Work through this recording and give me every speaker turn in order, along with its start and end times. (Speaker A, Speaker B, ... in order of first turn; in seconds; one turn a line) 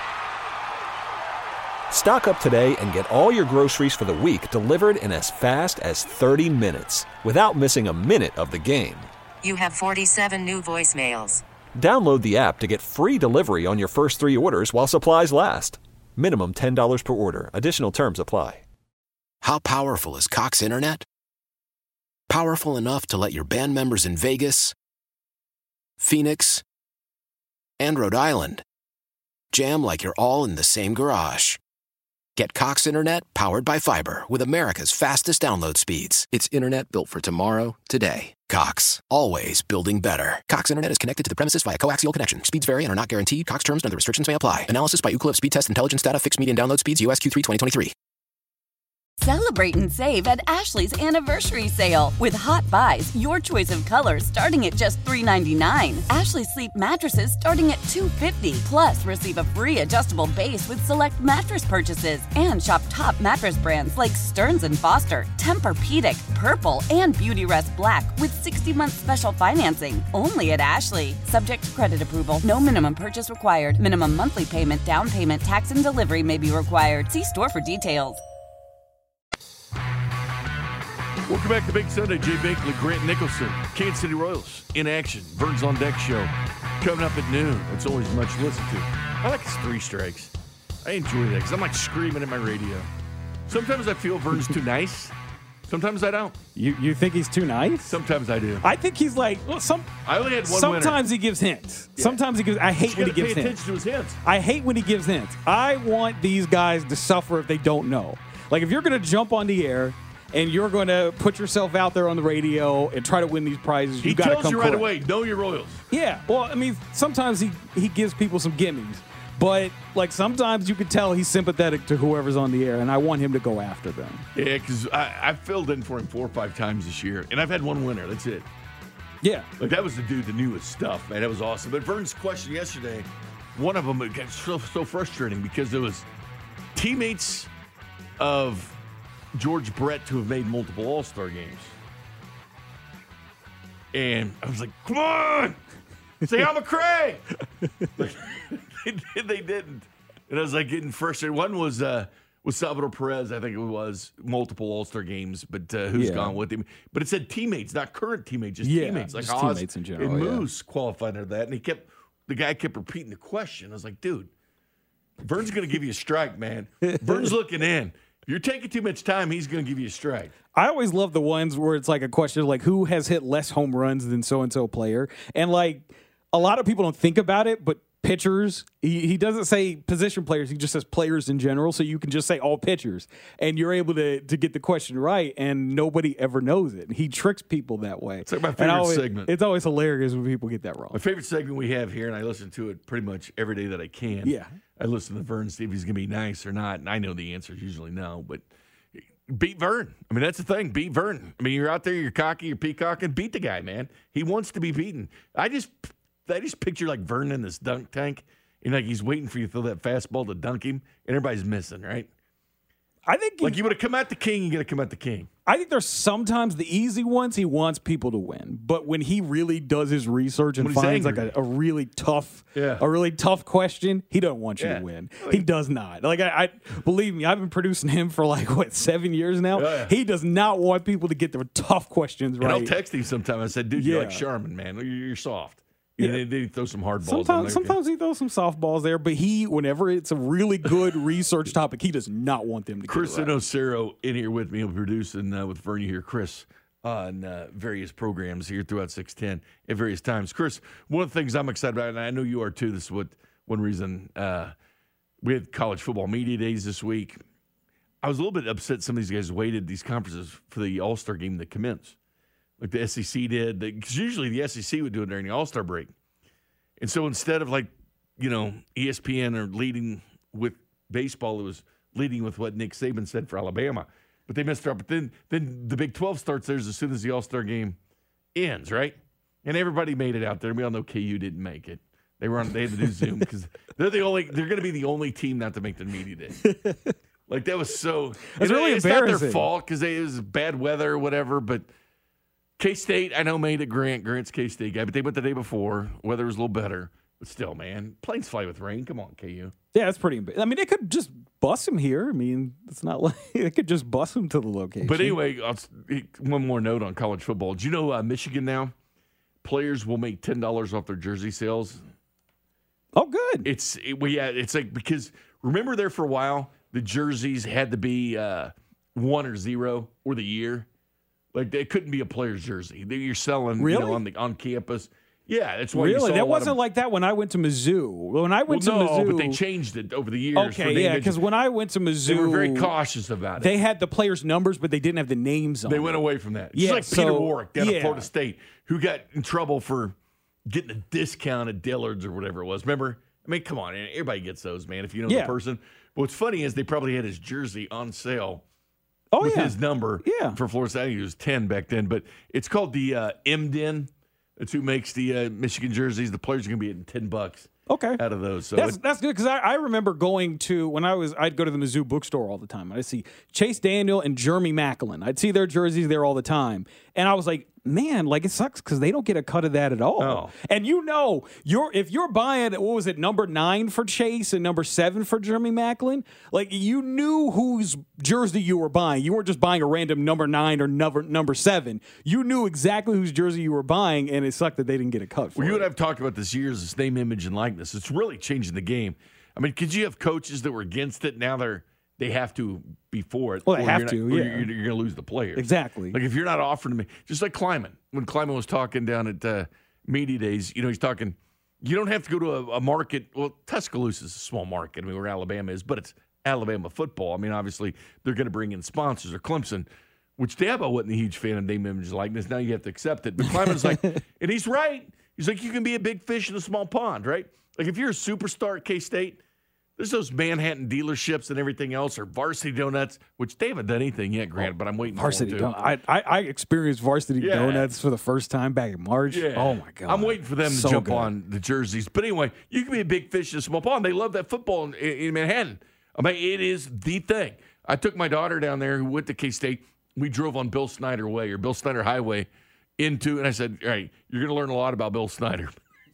Speaker A: 1.9-9.1
Speaker B: 9.4-11.4
Speaker A: 11.8-18.6
Speaker C: 19.4-21.0
Speaker C: 22.3-24.7
Speaker C: 26.0-26.6
Speaker C: 27.8-28.6
Speaker C: 29.5-31.6
Speaker C: 32.4-47.9
Speaker D: 49.2-78.2
Speaker E: 81.3-90.3
Speaker E: 90.8-92.9
Speaker E: 93.5-95.1
Speaker E: 95.7-96.4
Speaker F: 96.5-97.9
Speaker E: 97.8-98.6
Speaker F: 98.6-99.9
Speaker E: 100.0-101.0
Speaker F: 100.5-103.6
Speaker E: 102.8-104.2
Speaker F: 104.2-114.9
Speaker E: 114.0-115.8
Speaker F: 115.9-124.2
Speaker E: 124.3-128.4
Speaker F: 129.2-129.5
Speaker E: 129.6-136.1
Speaker E: 136.7-137.5
Speaker E: 138.2-138.8
Speaker E: 139.3-141.7
Speaker E: 143.9-145.6
Speaker E: 146.2-147.2
Speaker E: 148.0-164.3
Speaker F: 155.9-156.4
Speaker F: 158.6-160.4
Speaker E: 165.2-170.3
Speaker F: 166.8-167.3
Speaker F: 170.5-191.0
Speaker E: 188.2-189.3
Speaker E: 190.9-198.4
Speaker F: 194.2-194.5
Speaker E: 198.9-212.1
Speaker F: 213.1-213.7
Speaker E: 213.4-215.3
Speaker F: 215.5-232.7
Speaker E: 220.6-221.2
Speaker E: 222.5-222.8
Speaker E: 224.6-225.4
Speaker E: 229.6-229.9
Speaker E: 232.4-237.8
Speaker F: 233.8-234.2
Speaker F: 237.0-243.3
Speaker E: 242.9-254.5
Speaker E: 255.2-257.2
Speaker E: 258.0-261.9
Speaker E: 262.6-265.9
Speaker E: 266.8-277.8
Speaker E: 278.3-286.4
Speaker F: 286.4-286.9
Speaker E: 287.3-291.7
Speaker F: 288.3-289.5
Speaker E: 292.6-299.5
Speaker F: 299.7-305.2
Speaker E: 304.8-308.7
Speaker E: 309.4-311.8
Speaker F: 312.9-313.5
Speaker E: 313.4-320.7
Speaker E: 321.3-326.6
Speaker F: 323.6-324.0
Speaker F: 325.7-329.4
Speaker E: 328.5-331.2
Speaker F: 330.4-332.7
Speaker E: 332.1-333.6
Speaker F: 333.4-336.0
Speaker E: 335.7-339.9
Speaker F: 336.5-338.1
Speaker E: 340.4-348.4
Speaker F: 345.1-345.3
Speaker F: 349.1-350.4
Speaker E: 349.2-358.8
Speaker F: 357.7-358.0
Speaker F: 358.5-385.7
Speaker E: 370.0-370.3
Speaker E: 385.4-409.6
Speaker F: 393.5-394.5
Speaker F: 395.4-396.0
Speaker E: 410.2-419.2
Speaker F: 413.3-414.0
Speaker E: 419.8-425.5
Speaker F: 424.4-431.1
Speaker E: 427.2-427.6
Speaker E: 429.1-445.5